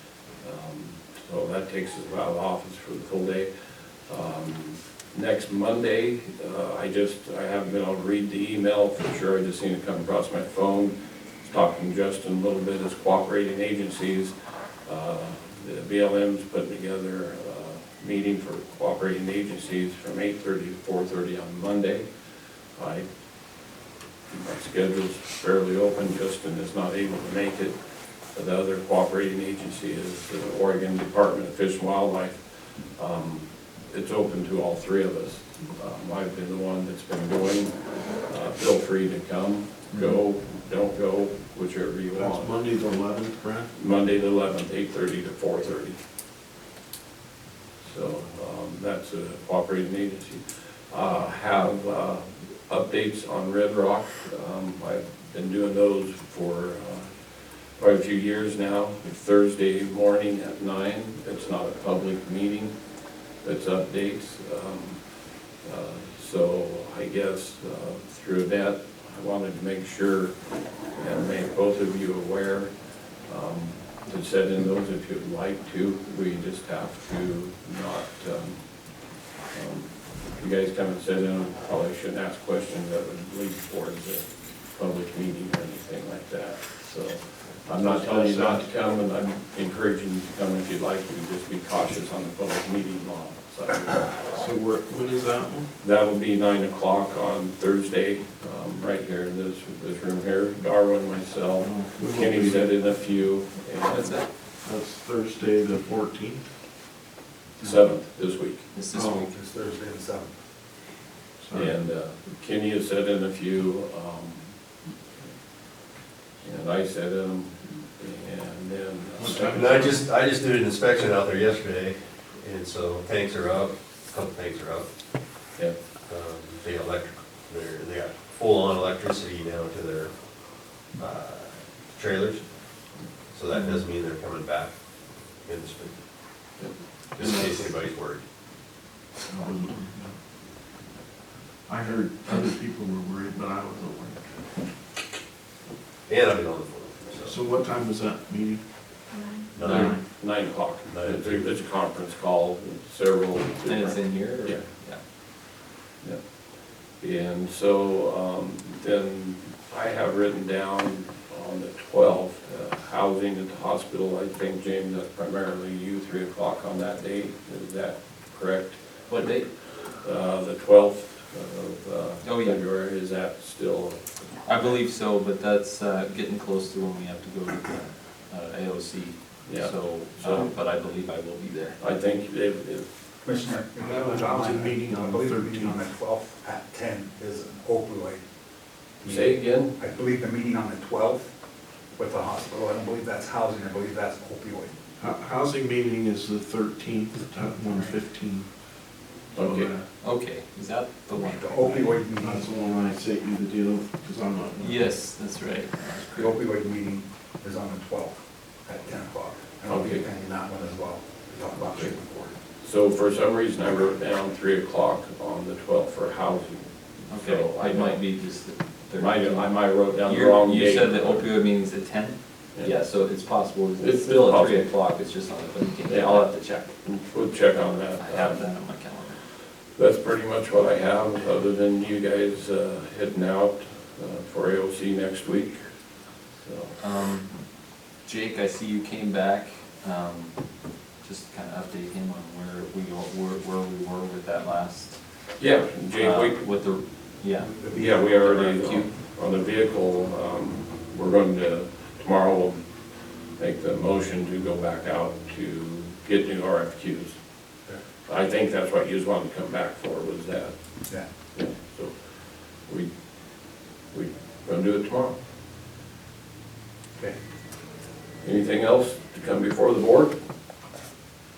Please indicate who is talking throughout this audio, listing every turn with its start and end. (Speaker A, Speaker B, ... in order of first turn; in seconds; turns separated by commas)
Speaker A: 0.4-3.5, Speaker A: 4.0-22.1, Speaker A: 22.8-23.1, Speaker A: 24.3-27.8, Speaker A: 28.3-32.4, Speaker A: 32.9-42.5, Speaker B: 39.9-40.2, Speaker C: 42.1-43.7, Speaker A: 43.7-46.0, Speaker A: 47.8-57.1, Speaker A: 57.7-62.8, Speaker A: 63.4-70.3, Speaker A: 70.9-72.7, Speaker A: 73.2-78.6, Speaker A: 79.5-94.3, Speaker C: 87.8-88.7, Speaker C: 94.3-95.7, Speaker A: 95.8-104.2, Speaker C: 101.6-102.7, Speaker B: 103.8-104.3, Speaker C: 104.6-106.5, Speaker A: 107.6-108.7, Speaker B: 108.7-109.3, Speaker C: 108.9-109.3, Speaker D: 109.2-110.3, Speaker C: 111.4-111.8, Speaker A: 111.5-114.5, Speaker A: 116.4-120.0, Speaker C: 119.2-120.0, Speaker E: 119.3-124.9, Speaker E: 126.1-130.1, Speaker E: 130.9-132.4, Speaker E: 133.3-134.7, Speaker B: 133.5-133.8, Speaker E: 135.4-136.0, Speaker E: 137.2-138.2, Speaker C: 139.3-140.1, Speaker C: 141.7-144.4, Speaker E: 146.1-147.4, Speaker C: 147.2-148.6, Speaker E: 149.5-149.9, Speaker A: 149.6-154.6, Speaker C: 149.6-150.0, Speaker E: 150.9-151.5, Speaker B: 153.6-155.0, Speaker A: 157.0-174.4, Speaker B: 169.1-169.5, Speaker B: 172.2-172.6, Speaker B: 174.4-181.8, Speaker A: 179.4-180.5, Speaker A: 181.8-182.9, Speaker D: 183.2-188.2, Speaker C: 183.8-185.9, Speaker D: 189.0-191.3, Speaker A: 189.1-189.7, Speaker D: 191.9-194.7, Speaker C: 195.0-198.6, Speaker A: 199.3-199.7, Speaker C: 199.3-199.9, Speaker B: 200.0-202.0, Speaker D: 201.1-202.5, Speaker C: 202.2-204.9, Speaker B: 204.6-206.4, Speaker D: 206.1-212.3, Speaker A: 209.7-210.0, Speaker A: 212.6-218.0, Speaker B: 217.1-226.7, Speaker A: 219.0-221.3, Speaker A: 223.8-224.7, Speaker A: 225.9-228.4, Speaker B: 228.0-229.2, Speaker A: 229.7-235.6, Speaker A: 236.4-236.8, Speaker B: 236.8-237.5, Speaker B: 238.0-240.4, Speaker B: 240.9-245.0, Speaker A: 245.4-246.4, Speaker B: 246.0-248.9, Speaker D: 247.4-248.1, Speaker A: 247.7-252.6, Speaker A: 253.3-257.2, Speaker A: 258.1-260.5, Speaker A: 261.3-262.9, Speaker A: 263.9-265.1, Speaker A: 268.2-270.1